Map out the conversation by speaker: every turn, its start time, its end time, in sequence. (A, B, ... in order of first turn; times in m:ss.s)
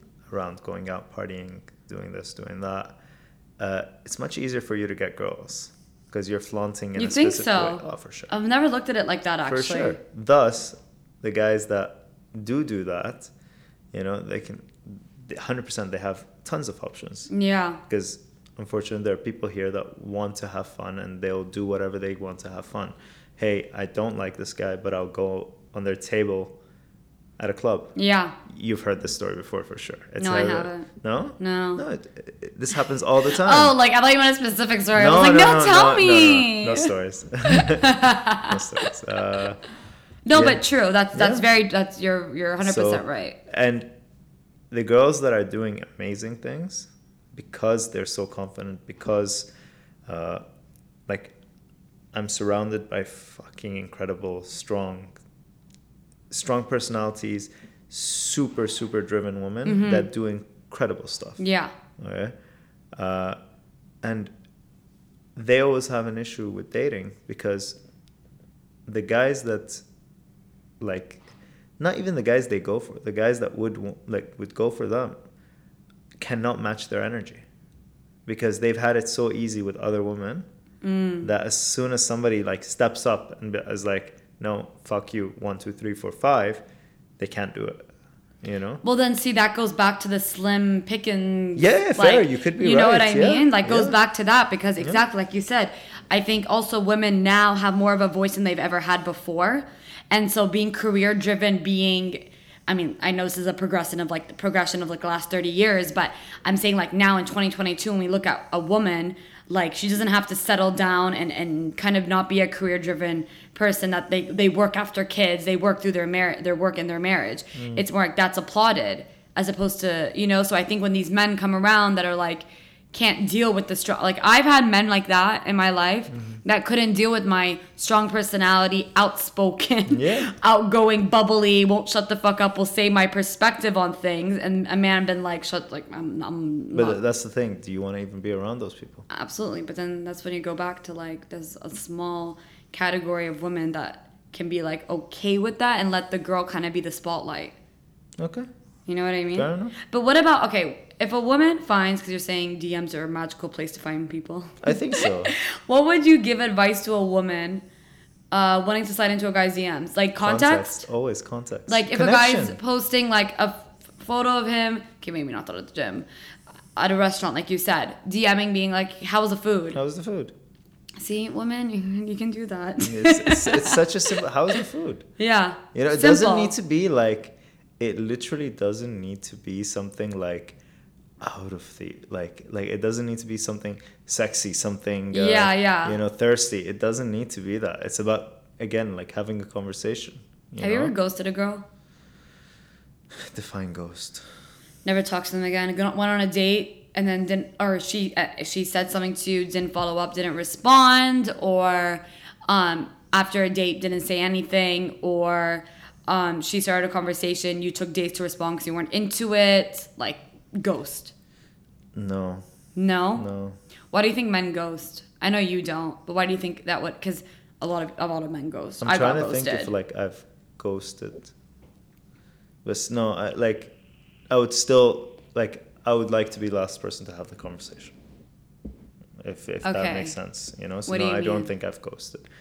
0:00.3-0:03.0 A
0:03.6-0:08.3 A
0:07.0-0:10.0 B
0:09.4-0:13.3 A
0:13.9-0:17.3 A
0:17.3-0:17.8 B
0:17.9-0:26.6 A
0:27.4-0:27.9 A
0:28.0-0:28.4 B
0:28.5-0:33.8 A
0:30.2-0:31.8 B
0:33.4-0:36.9 B
0:35.0-0:39.6 A
0:37.5-0:38.9 B
0:40.3-0:43.4 B
0:40.3-0:40.6 A
0:41.1-0:41.5 A
0:42.6-0:43.9 A
0:44.7-0:49.5 A
0:50.1-0:50.4 A
0:51.1-0:51.4 A
0:52.1-0:55.1 A
0:56.3-1:01.4 A
0:59.6-1:00.1 B
1:01.4-1:01.7 B
1:02.0-1:02.3 A
1:03.0-1:03.4 A
1:04.0-1:04.3 A
1:05.4-1:07.8 A
1:08.9-1:09.8 A
1:10.8-1:11.2 A
1:11.8-1:15.2 A
1:16.2-1:17.4 A
1:18.3-1:20.5 A
1:20.8-1:21.3 B
1:21.2-1:26.6 A
1:27.2-1:27.9 A
1:28.4-1:28.8 A
1:28.8-2:17.0 B
1:31.6-1:34.0 A
1:57.6-1:57.8 A
2:06.1-2:06.4 A
2:09.9-2:10.3 A
2:16.7-2:19.0 A
2:19.1-2:27.6 B
2:28.2-2:28.5 A
2:28.9-2:37.6 B
2:29.3-2:29.8 A
2:34.6-2:35.3 A
2:38.3-2:40.8 B
2:40.2-2:42.6 A
2:41.7-2:46.1 B
2:46.8-2:49.8 B
2:49.7-2:50.3 A
2:51.0-2:54.2 B
2:52.8-2:55.1 A
2:55.2-2:56.5 B
2:55.7-3:00.6 A
3:01.2-3:10.9 A
3:05.1-3:06.0 B
3:10.6-3:11.6 B
3:13.2-3:14.2 A
3:14.8-3:31.1 B
3:31.9-3:32.4 A
3:32.8-3:33.3 B
3:33.2-3:33.6 A
3:33.9-3:39.7 B
3:38.8-3:41.3 A
3:42.6-3:43.7 A
3:44.3-3:48.0 A
3:49.2-3:52.2 A
3:49.6-3:50.2 B
3:50.9-3:51.5 B